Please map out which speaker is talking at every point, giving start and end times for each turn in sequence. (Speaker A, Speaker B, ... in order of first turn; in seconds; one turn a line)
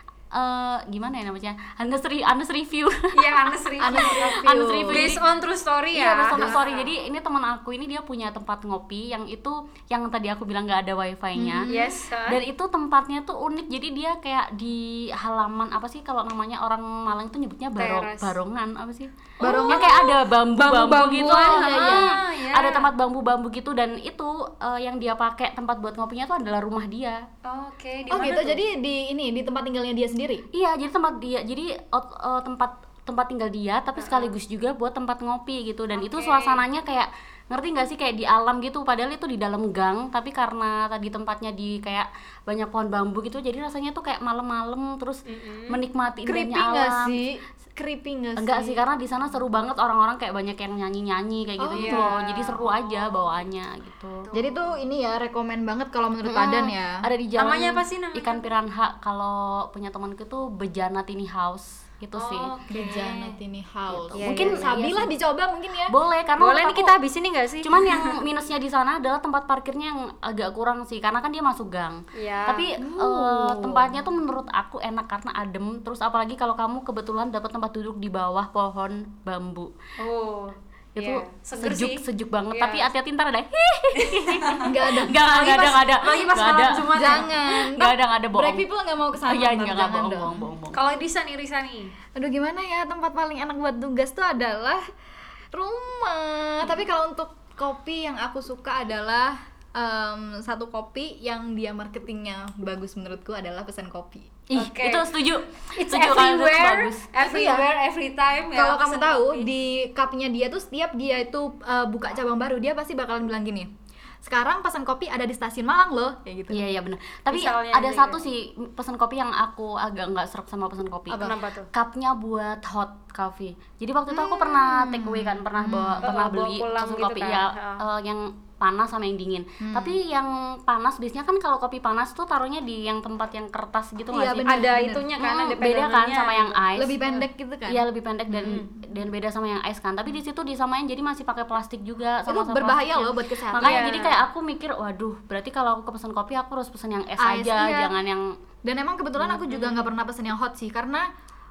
Speaker A: 0.3-5.2
Speaker B: 3.1-4.4
Speaker C: 3.8-5.2
Speaker B: 4.9-6.9
Speaker A: 5.9-11.7
Speaker C: 6.3-6.6
Speaker C: 11.4-12.0
Speaker B: 11.7-12.4
Speaker A: 12.2-27.2
Speaker B: 17.8-18.3
Speaker B: 19.4-22.9
Speaker C: 19.4-20.0
Speaker C: 21.3-22.1
Speaker B: 27.4-28.6
Speaker C: 28.1-30.4
Speaker A: 30.5-47.2
Speaker B: 34.0-34.3
Speaker B: 35.9-36.6
Speaker B: 45.2-45.8
Speaker C: 46.2-48.8
Speaker A: 48.4-54.3
Speaker C: 51.6-52.2
Speaker B: 51.8-53.2
Speaker B: 54.3-54.7
Speaker C: 54.3-57.0
Speaker A: 56.2-62.5
Speaker B: 57.4-58.5
Speaker B: 62.2-63.4
Speaker C: 62.7-65.9
Speaker A: 63.9-65.1
Speaker B: 64.1-64.7
Speaker A: 65.9-67.0
Speaker B: 66.4-68.2
Speaker A: 67.6-79.7
Speaker B: 72.1-72.8
Speaker C: 72.8-73.8
Speaker B: 80.0-82.9
Speaker A: 81.0-88.6
Speaker B: 84.0-84.7
Speaker C: 84.6-85.8
Speaker B: 85.3-87.3
Speaker C: 86.9-90.5
Speaker A: 89.2-90.8
Speaker B: 90.7-91.9
Speaker C: 92.2-94.8
Speaker C: 95.5-104.4
Speaker A: 104.5-107.0
Speaker B: 104.5-105.2
Speaker B: 105.8-109.5
Speaker C: 107.2-107.7
Speaker C: 108.5-113.7
Speaker C: 114.2-116.6
Speaker A: 116.5-134.7
Speaker B: 117.3-118.2
Speaker B: 121.1-121.7
Speaker C: 124.1-126.0
Speaker B: 126.0-127.8
Speaker C: 129.6-130.0
Speaker C: 134.1-135.1
Speaker B: 134.4-136.6
Speaker A: 135.2-148.3
Speaker C: 136.8-137.8
Speaker B: 138.4-138.7
Speaker C: 142.2-143.9
Speaker B: 143.6-144.2
Speaker C: 147.2-147.9
Speaker C: 148.6-151.1
Speaker A: 149.2-149.9